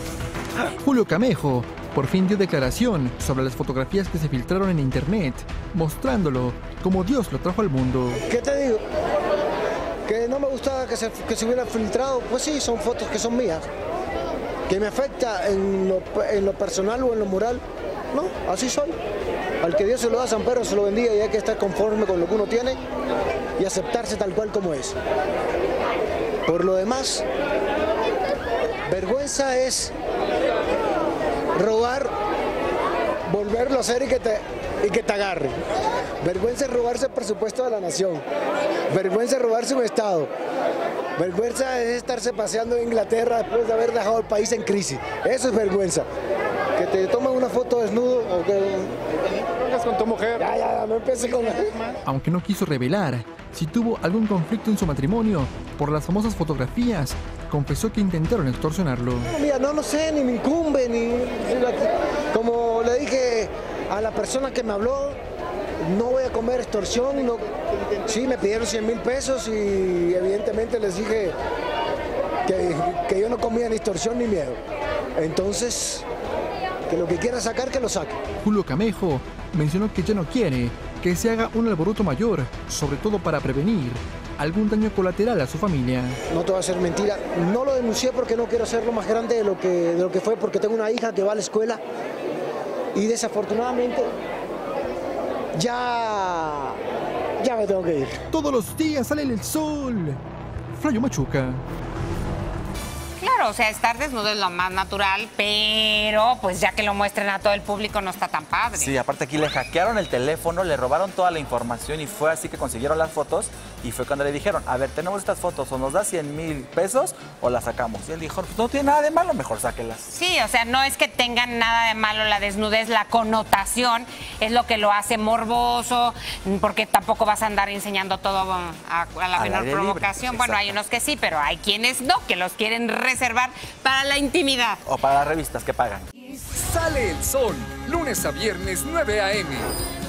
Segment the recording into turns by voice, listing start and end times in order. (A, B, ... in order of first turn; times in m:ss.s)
0:00.8-0:08.2 A
0:08.2-0:08.8 B
0:10.1-0:13.7 B
0:14.7-0:19.0 B
0:19.6-0:22.8 B
0:23.6-0:25.0 B
0:26.5-0:27.2 B
0:28.9-0:29.9 B
0:31.6-0:32.1 B
0:33.3-0:35.6 B
0:36.2-0:38.2 B
0:38.9-0:40.3 B
0:41.2-0:46.1 B
0:46.8-0:49.0 B
0:49.8-0:51.9 B
0:52.0-0:59.3 A
0:59.2-1:05.2 B
1:05.8-1:07.5 B
1:08.0-1:11.4 B
1:12.5-1:14.6 B
1:15.2-1:16.0 B
1:16.9-1:18.2 B
1:18.4-1:26.2 A
1:26.3-1:31.8 B
1:33.0-1:34.1 B
1:35.6-1:36.8 B
1:37.4-1:38.2 B
1:38.3-1:40.2 A
1:40.7-1:41.6 A
1:43.2-1:49.0 C
1:48.8-2:00.1 D
2:00.1-2:14.8 C
2:09.4-2:10.8 D
2:14.9-2:16.1 D
2:16.3-2:19.7 E